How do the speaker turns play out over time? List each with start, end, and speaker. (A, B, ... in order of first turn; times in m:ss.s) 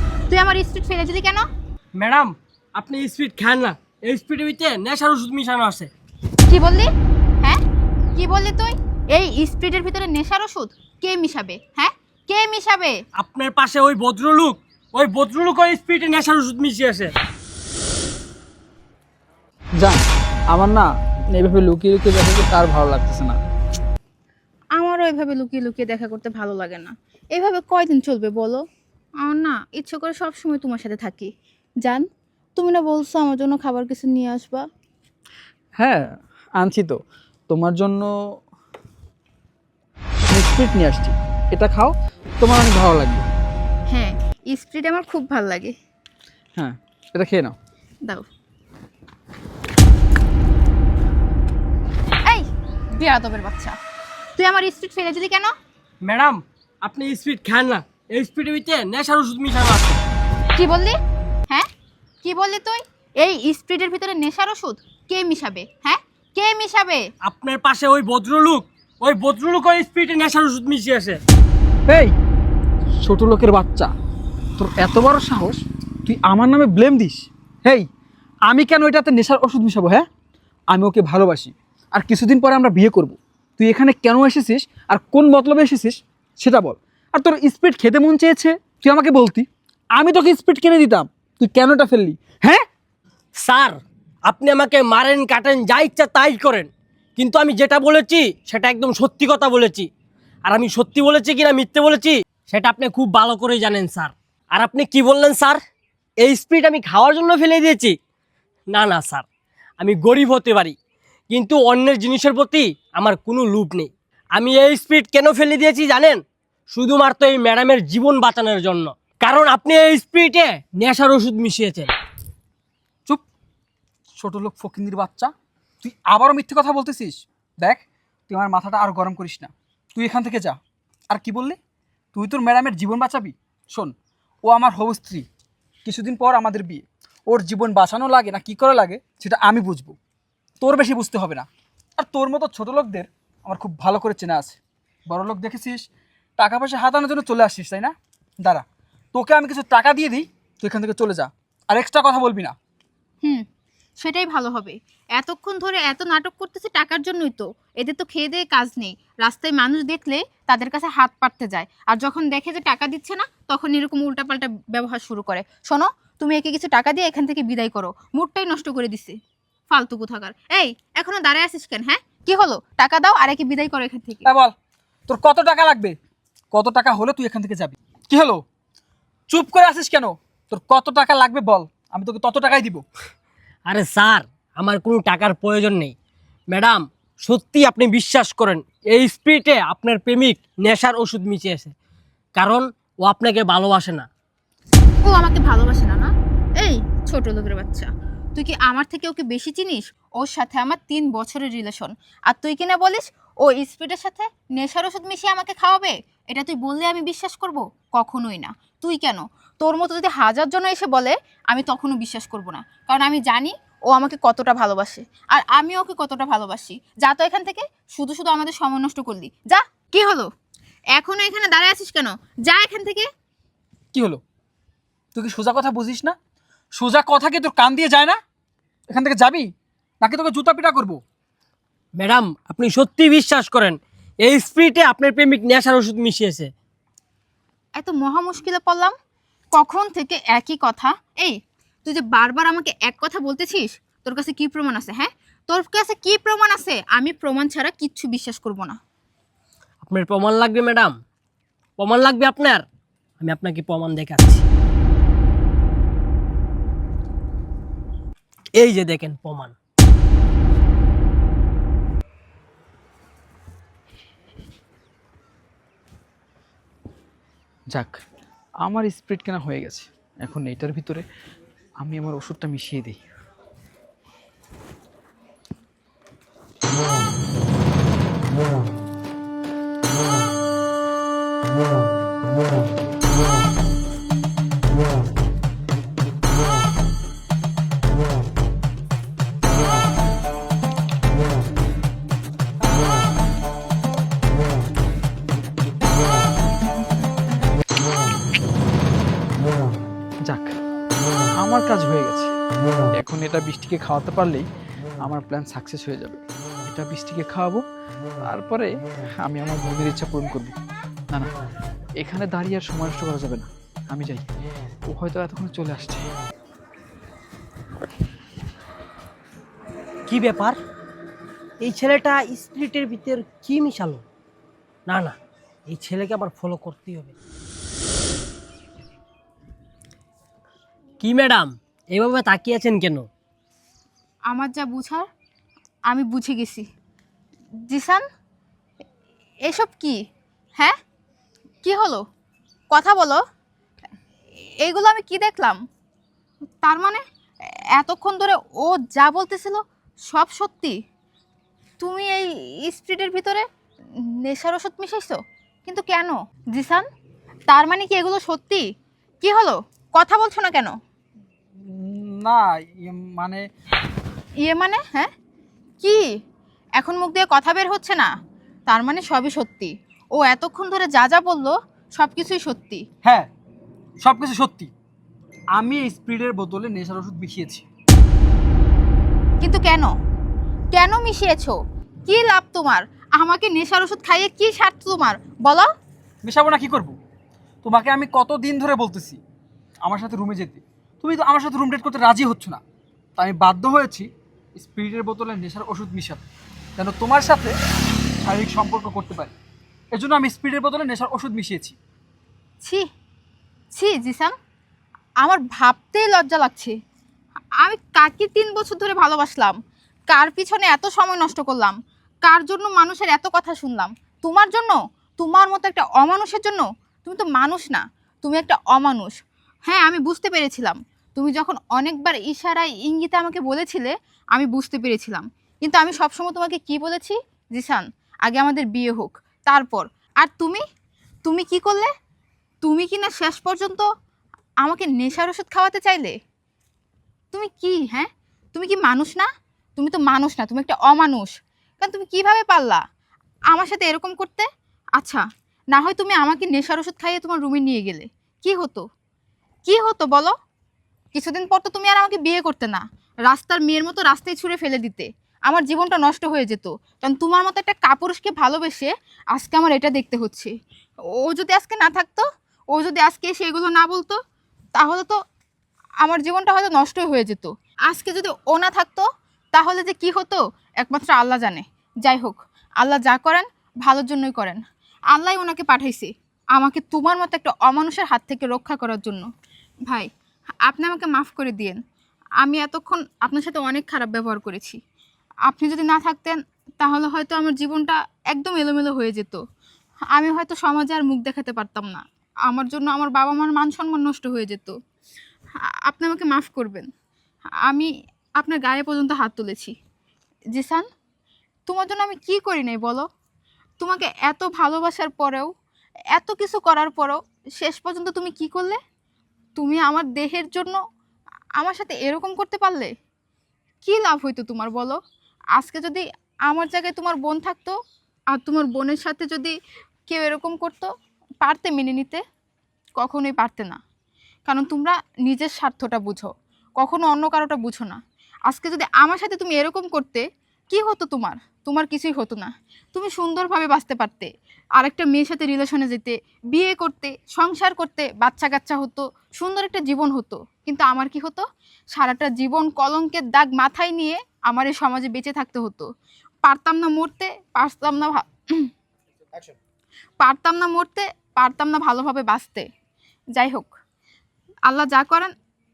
0:00.3-0:01.4 A
0:02.0-0:05.9 B
0:06.5-0:06.9 A
0:08.2-0:13.0 A
0:13.2-0:17.1 B
0:19.8-0:23.4 C
0:24.8-0:28.6 A
0:29.2-0:31.3 A
0:31.8-0:34.6 A
0:35.8-0:38.1 C
0:40.3-0:43.3 C
0:43.9-0:45.8 A
0:46.6-0:47.6 C
0:52.3-0:53.8 A
0:54.4-0:55.5 A
0:56.0-1:00.0 B
1:00.6-1:01.0 A
1:02.2-1:07.0 A
1:07.2-1:11.2 B
1:11.9-1:12.2 C
1:13.0-1:13.9 C
1:14.6-1:17.9 C
1:18.5-1:20.1 C
1:20.7-1:32.6 C
1:33.4-1:33.8 B
1:34.3-1:39.9 B
1:40.5-1:45.6 B
1:46.2-1:48.0 B
1:48.7-1:49.3 B
1:49.8-1:50.8 B
1:51.3-2:01.9 B
2:04.2-2:10.6 C
2:11.1-2:11.6 C
2:12.1-2:13.9 C
2:14.5-2:15.3 C
2:15.8-2:20.0 C
2:20.6-2:21.5 C
2:22.0-2:24.6 C
2:25.1-2:25.9 C
2:26.4-2:32.6 C
2:34.0-2:49.2 A
2:49.7-2:54.3 A
2:54.2-2:54.5 C
2:55.1-2:56.0 C
2:56.5-2:58.4 C
2:59.3-3:02.8 C
3:03.7-3:05.9 B
3:06.5-3:11.7 B
3:12.4-3:14.1 B
3:15.0-3:40.3 A
3:41.0-3:43.1 A
3:43.9-3:44.2 C
3:45.2-3:46.2 C
3:46.8-3:48.2 C
3:48.9-3:49.5 C
3:50.0-3:51.0 C
3:52.0-3:56.5 B
3:57.8-3:58.9 A
3:59.5-4:08.8 A
4:09.8-4:10.9 B
4:11.8-4:12.6 B
4:13.2-4:14.5 B
4:18.6-4:19.6 B
4:27.7-4:28.0 C
4:28.6-4:31.0 C
4:31.8-4:33.0 C
5:00.3-5:00.5 C
5:01.4-5:02.3 C
5:03.0-5:04.4 C
5:05.0-5:07.6 C
5:08.3-5:08.7 C
5:09.2-5:10.6 C
5:12.0-5:14.2 C
5:14.9-5:16.1 C
5:20.1-5:20.6 B
5:21.6-5:24.0 B
5:24.9-5:25.2 B
5:25.7-5:27.1 B
5:31.0-5:33.1 B
5:34.3-5:35.1 A
5:35.9-5:36.6 A
5:37.7-5:38.0 A
5:39.5-5:40.0 A
5:41.6-5:42.0 A
5:42.7-5:43.2 A
5:44.6-5:45.6 A
5:46.6-5:47.0 A
5:47.8-5:50.8 A
5:51.8-5:53.4 A
5:54.2-5:56.8 A
5:57.5-5:58.6 A
5:59.2-6:00.7 A
6:01.6-6:03.4 C
6:04.4-6:05.1 A
6:06.8-6:08.1 A
6:08.7-6:12.8 A
6:13.0-6:13.3 C
6:14.0-6:14.7 C
6:15.6-6:17.7 C
6:19.4-6:19.9 A
6:20.7-6:25.7 A
6:26.2-6:27.0 C
6:27.6-6:29.2 C
6:29.8-6:32.6 C
6:33.2-6:36.2 C
6:36.8-6:37.5 C
6:38.2-6:39.3 C
6:39.9-6:41.8 C
6:43.7-6:44.3 A
6:45.2-6:46.7 A
6:47.6-6:49.6 A
6:50.1-6:51.7 A
6:52.2-6:59.2 A
6:59.7-7:10.6 A
7:11.2-7:11.9 A
7:12.6-7:13.9 A
7:14.6-7:16.1 A
7:17.3-7:22.8 A
7:23.5-7:24.5 A
7:25.0-7:25.2 A
7:25.7-7:28.8 A
7:29.7-7:30.3 A
7:31.1-7:40.5 A
7:41.2-7:44.2 A
7:44.8-7:45.2 A
7:46.0-7:54.6 A
7:55.1-7:59.3 A
8:00.7-8:01.8 A
8:02.4-8:04.8 A
8:05.5-8:09.4 A
8:10.2-8:14.7 A
8:15.9-8:16.9 A
8:17.7-8:19.7 A
8:20.5-8:20.8 A
8:21.7-8:23.0 A
8:23.8-8:25.5 A
8:26.1-8:28.8 A
8:29.6-8:30.8 A
8:31.6-8:32.9 A
8:33.8-8:35.0 A
8:35.6-8:37.8 A
8:38.3-8:39.5 A
8:40.1-8:40.9 A
8:41.4-8:42.2 A
8:43.0-8:43.8 A
8:44.5-9:01.4 A
9:01.9-9:05.9 A
9:06.4-9:08.7 A
9:10.2-9:12.7 A
9:13.4-9:13.7 A
9:14.7-9:15.3 A